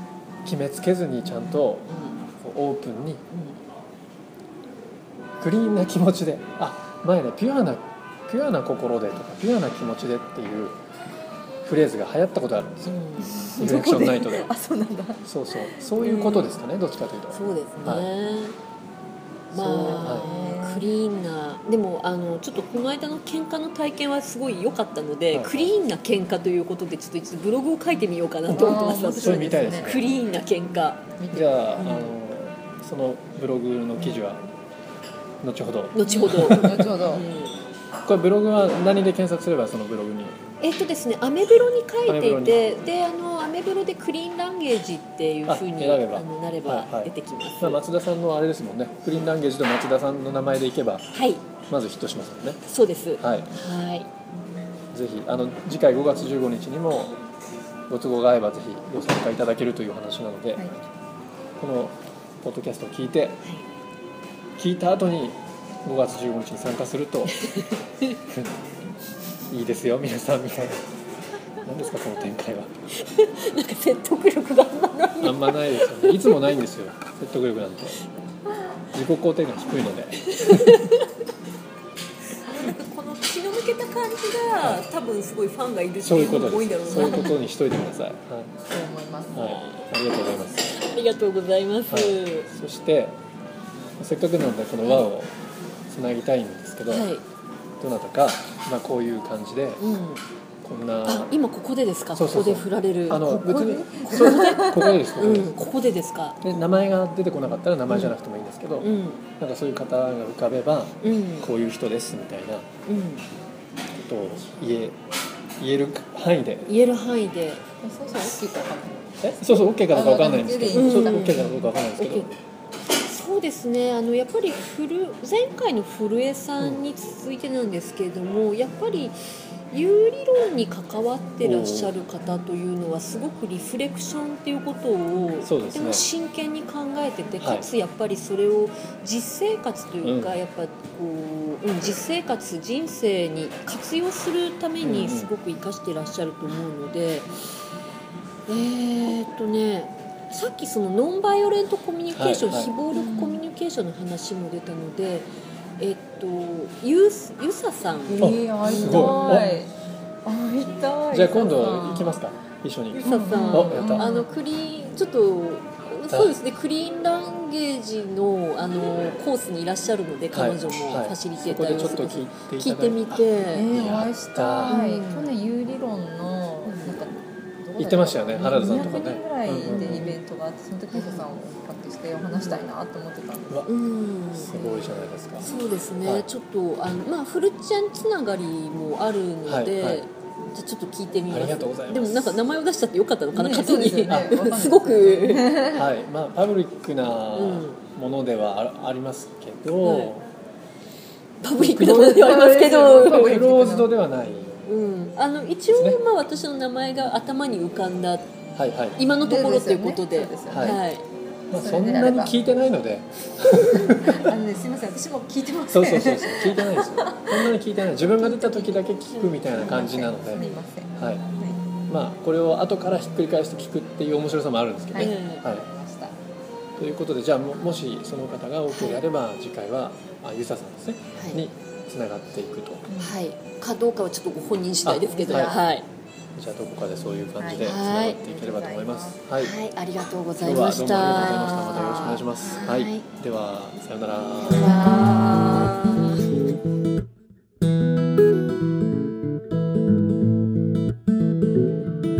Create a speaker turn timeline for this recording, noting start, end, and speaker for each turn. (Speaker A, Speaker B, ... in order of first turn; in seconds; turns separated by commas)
Speaker A: 0.4-3.2, Speaker B: 1.9-2.3, Speaker B: 3.3-3.6, Speaker A: 5.4-10.8, Speaker A: 11.6-12.9, Speaker B: 12.8-13.4, Speaker C: 13.3-15.2, Speaker A: 13.5-14.5, Speaker A: 15.2-18.1, Speaker B: 16.0-16.6, Speaker B: 17.3-18.6, Speaker C: 19.5-20.9, Speaker B: 19.5-31.1, Speaker A: 20.0-20.3, Speaker A: 25.3-25.7, Speaker C: 28.5-30.0, Speaker A: 28.5-30.0, Speaker C: 31.2-31.6, Speaker A: 31.3-34.5, Speaker B: 31.8-32.1, Speaker B: 34.0-34.2, Speaker A: 35.4-36.9, Speaker B: 35.9-37.6, Speaker C: 36.0-37.2, Speaker A: 38.0-40.4, Speaker B: 40.6-47.8, Speaker A: 42.1-42.8, Speaker A: 45.5-51.1, Speaker B: 51.1-51.4, Speaker A: 51.7-52.6, Speaker B: 52.7-54.1, Speaker A: 53.2-53.5, Speaker A: 54.9-57.1, Speaker A: 57.9-60.6, Speaker A: 61.6-63.4, Speaker A: 64.6-67.4, Speaker A: 68.3-68.5, Speaker A: 69.5-70.9, Speaker A: 71.6-72.7, Speaker B: 73.0-76.4, Speaker A: 75.2-78.0, Speaker A: 78.9-80.7, Speaker B: 80.2-81.1, Speaker B: 82.4-87.4, Speaker A: 86.0-88.5, Speaker C: 88.7-89.5, Speaker A: 89.3-90.7, Speaker B: 89.3-89.8, Speaker B: 90.6-92.5, Speaker A: 91.9-93.2, Speaker A: 94.0-95.3, Speaker B: 94.8-95.1, Speaker A: 95.9-97.1, Speaker B: 96.9-97.2, Speaker A: 97.8-99.8, Speaker B: 99.8-100.2, Speaker A: 100.6-101.3, Speaker B: 101.0-106.4, Speaker A: 102.1-105.7, Speaker C: 104.0-105.0, Speaker A: 106.4-112.7, Speaker B: 107.9-108.1, Speaker B: 108.8-109.2, Speaker B: 111.0-111.5, Speaker B: 112.8-113.2, Speaker A: 113.9-115.0, Speaker A: 115.6-116.7, Speaker B: 116.7-117.6, Speaker C: 117.8-121.7, Speaker A: 119.2-122.3, Speaker B: 120.7-122.3, Speaker B: 123.0-129.2, Speaker B: 129.7-147.3, Speaker A: 131.4-131.9, Speaker A: 135.4-136.1, Speaker A: 137.4-137.7, Speaker A: 140.0-140.4, Speaker A: 144.8-145.3, Speaker B: 148.5-159.5, Speaker A: 152.1-152.7, Speaker C: 152.9-153.4, Speaker C: 158.1-159.7, Speaker A: 158.2-159.6, Speaker C: 160.2-162.2, Speaker A: 161.1-164.1, Speaker B: 163.0-173.7, Speaker C: 163.0-164.3, Speaker A: 166.1-166.4, Speaker A: 170.3-174.8, Speaker C: 173.5-183.7, Speaker B: 174.6-175.3, Speaker B: 176.7-177.0, Speaker A: 177.8-180.1, Speaker B: 178.4-180.2, Speaker B: 180.9-181.2, Speaker B: 182.3-182.6, Speaker B: 183.7-184.5, Speaker A: 184.3-185.5, Speaker C: 184.4-185.1, Speaker B: 185.4-195.6, Speaker A: 186.0-186.3, Speaker A: 189.4-190.0, Speaker A: 191.3-192.4, Speaker C: 193.3-195.9, Speaker A: 194.1-194.3, Speaker A: 195.7-200.3, Speaker B: 197.3-197.8, Speaker B: 199.8-200.1, Speaker B: 201.4-203.4, Speaker A: 201.5-202.3, Speaker C: 201.7-203.9, Speaker A: 202.8-204.6, Speaker B: 204.6-208.3, Speaker A: 205.7-206.0, Speaker A: 208.5-209.0, Speaker B: 209.0-211.0, Speaker C: 209.2-210.8, Speaker A: 210.5-210.8, Speaker A: 211.5-214.3, Speaker C: 211.5-212.3, Speaker C: 213.8-221.6, Speaker A: 215.7-221.2, Speaker B: 219.4-220.6, Speaker A: 221.9-225.6, Speaker C: 224.9-226.2, Speaker B: 224.9-225.4, Speaker A: 226.8-232.9, Speaker B: 227.6-227.8, Speaker B: 228.7-229.0, Speaker B: 231.1-231.4, Speaker C: 232.9-233.2, Speaker B: 233.0-235.8, Speaker A: 234.8-235.6, Speaker C: 235.1-235.7, Speaker A: 236.3-239.5, Speaker C: 237.4-239.2, Speaker B: 237.6-238.2, Speaker B: 239.4-243.1, Speaker A: 240.4-244.9, Speaker B: 244.4-246.3, Speaker C: 244.7-245.4